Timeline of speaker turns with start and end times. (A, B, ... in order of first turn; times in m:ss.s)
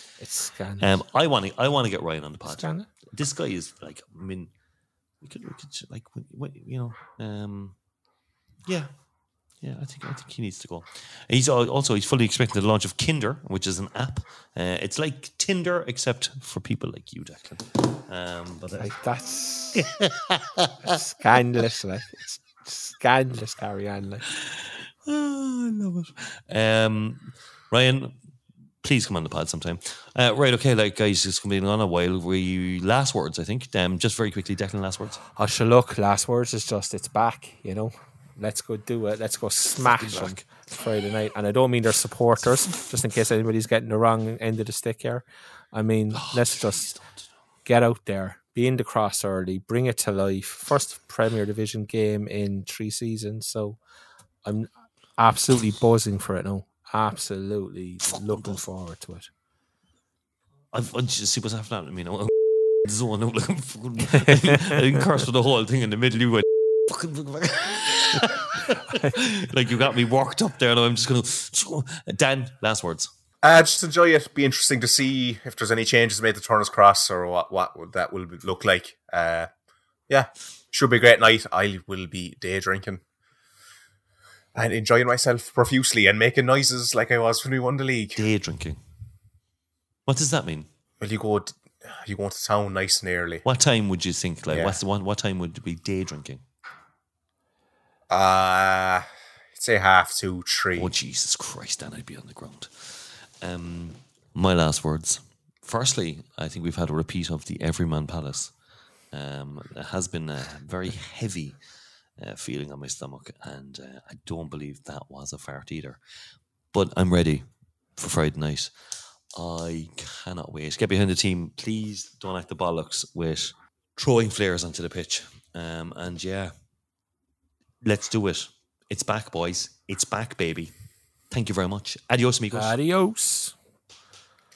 0:00.2-0:01.0 A
0:00.8-0:04.5 B
0:02.4-0:02.9 A
0:05.2-0:07.8 B
0:09.6-0:19.0 B
0:18.8-0:19.9 A
0:19.8-0:20.8 B
0:20.8-0:24.3 A
0:24.3-0:28.2 B
0:28.8-0:35.2 B
0:35.4-0:46.9 A
0:39.8-0:40.5 B
0:42.5-0:42.8 B
0:46.1-0:47.2 B
0:47.6-0:53.8 A
0:54.4-0:59.3 A
0:58.1-0:58.6 B
1:00.7-1:13.1 B
1:04.1-1:04.8 A
1:13.4-1:19.5 C
1:20.1-1:23.0 C
1:24.6-1:28.2 C
1:28.2-1:28.8 B
1:30.1-1:30.7 B
1:31.0-1:33.4 C
1:33.4-1:36.4 B
1:34.5-1:34.8 C
1:38.1-1:39.1 C
1:39.6-1:40.9 C
1:40.8-1:48.5 B
1:49.1-1:51.6 B
1:52.2-1:56.0 B
1:56.7-1:58.7 B
1:59.4-2:06.5 B
2:07.8-2:10.7 B
2:11.3-2:12.8 B
2:12.5-2:13.6 A